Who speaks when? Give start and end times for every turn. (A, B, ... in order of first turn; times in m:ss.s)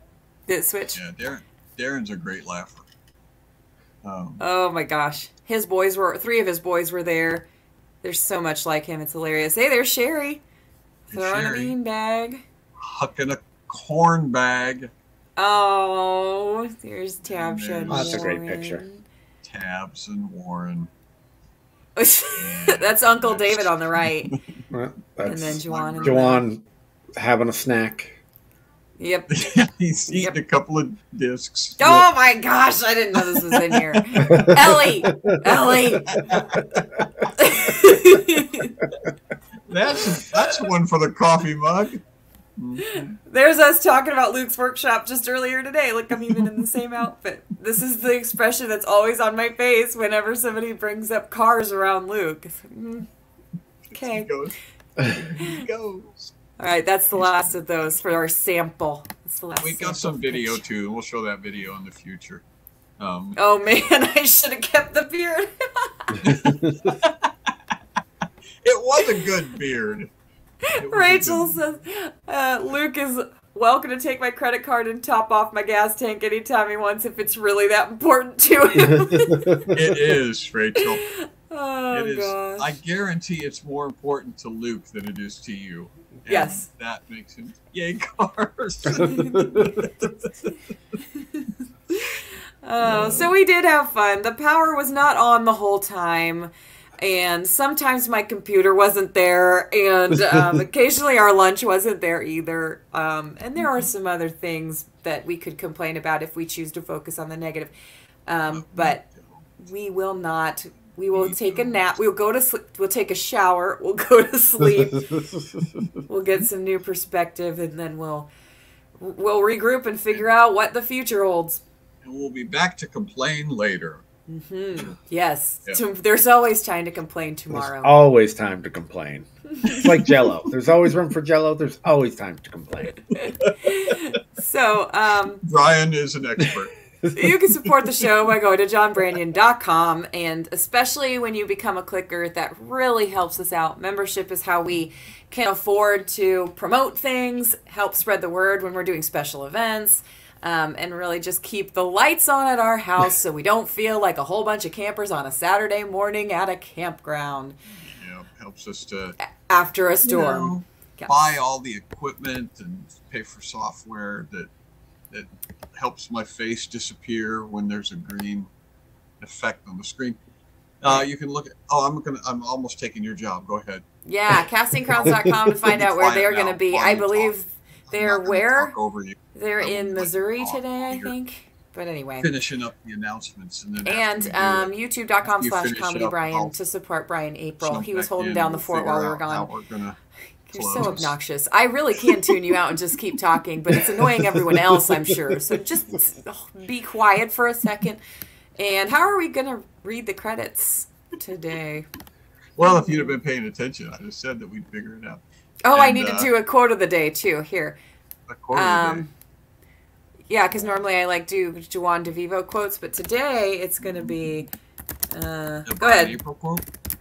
0:00.5-0:01.0 A
0:01.0-0:02.9 B
0:04.0-0:04.4 B
0:04.4-0:07.5 A
0:08.0-0:10.4 A
0:11.1-0:12.4 A
0:11.1-0:11.7 B
0:12.8-0:14.9 B
0:15.4-0:19.0 A
0:17.3-0:18.3 B
0:17.9-0:18.8 C
0:19.4-0:20.9 B
0:22.0-0:24.4 A
0:22.4-0:24.4 B
0:24.7-0:26.6 C
0:25.2-0:26.4 A
0:25.3-0:26.3 B
0:27.2-0:28.2 C
0:29.0-0:29.4 A
0:29.3-0:32.1 B
0:30.1-0:30.4 A
0:31.8-0:36.2 A
0:33.3-0:34.0 B
0:34.2-0:36.0 C
0:36.1-0:36.8 B
0:37.3-0:38.9 A
0:39.7-0:42.0 B
0:40.4-0:40.6 A
0:42.6-0:43.2 B
0:42.8-0:53.1 A
0:53.9-0:56.3 B
0:53.9-0:54.3 A
0:56.6-1:00.6 A
0:59.6-1:02.4 B
1:03.0-1:03.4 B
1:03.4-1:06.3 A
1:06.2-1:07.3 B
1:08.6-1:10.1 B
1:10.7-1:19.7 A
1:10.8-1:11.6 B
1:19.7-1:21.1 B
1:20.8-1:22.7 A
1:21.9-1:30.3 B
1:26.3-1:26.7 A
1:29.0-1:29.8 A
1:29.2-1:29.7 C
1:31.1-1:47.7 A
1:32.9-1:33.3 B
1:48.3-1:49.0 A
1:48.5-1:49.4 B
1:49.6-1:55.1 A
1:51.1-1:51.9 B
1:55.1-1:55.6 C
1:56.1-1:58.3 A
1:59.0-2:01.6 A
2:02.0-2:04.0 B
2:04.3-2:08.0 A
2:07.5-2:13.0 C
2:13.2-2:15.4 A
2:13.3-2:13.5 B
2:15.4-2:16.8 B
2:17.1-2:37.6 A
2:37.8-2:39.2 B
2:39.5-2:41.2 A
2:40.0-2:44.5 B
2:45.1-2:48.5 B
2:49.2-2:50.2 B
2:50.8-2:53.8 B
2:54.0-2:58.7 A
2:54.9-2:57.3 B
2:57.9-3:01.1 B
2:59.4-3:02.3 A
3:02.2-3:04.7 B
3:03.8-3:09.5 A
3:05.2-3:06.5 B
3:07.6-3:10.0 B
3:10.5-3:18.0 A
3:10.5-3:11.2 B
3:18.6-3:21.9 A
3:22.6-3:26.3 B
3:22.6-3:23.2 A
3:25.6-3:27.8 A
3:28.3-3:29.0 B
3:28.5-3:29.1 A
3:30.3-3:34.5 A
3:33.8-3:34.2 B
3:35.1-3:36.2 A
3:35.7-3:36.6 B